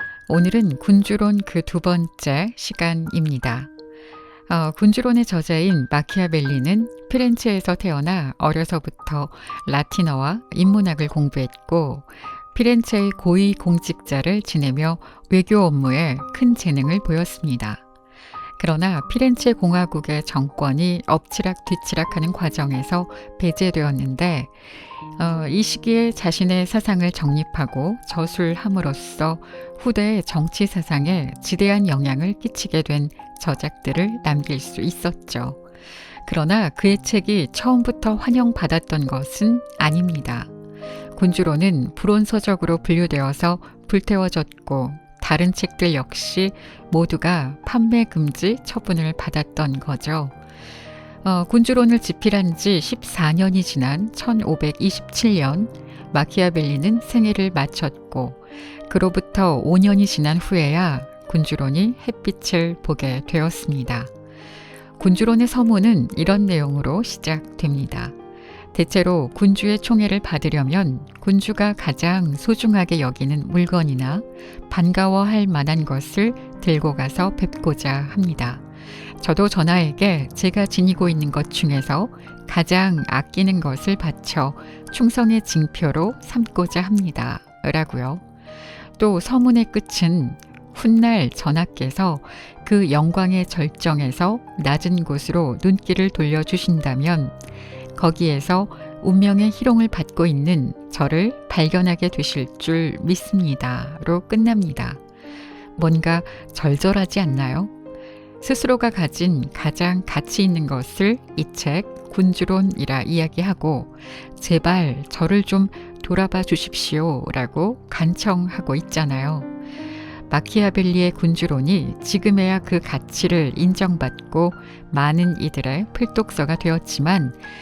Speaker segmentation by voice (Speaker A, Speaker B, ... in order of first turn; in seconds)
Speaker A: 0.3-3.7, 4.5-17.8, 18.6-24.5, 25.2-35.6, 36.3-40.5, 41.1-50.4, 51.2-64.1, 65.0-68.2, 68.7-78.6, 79.2-88.2, 89.0-97.3, 98.0-105.0, 105.8-107.7, 108.4-119.5, 120.3-127.4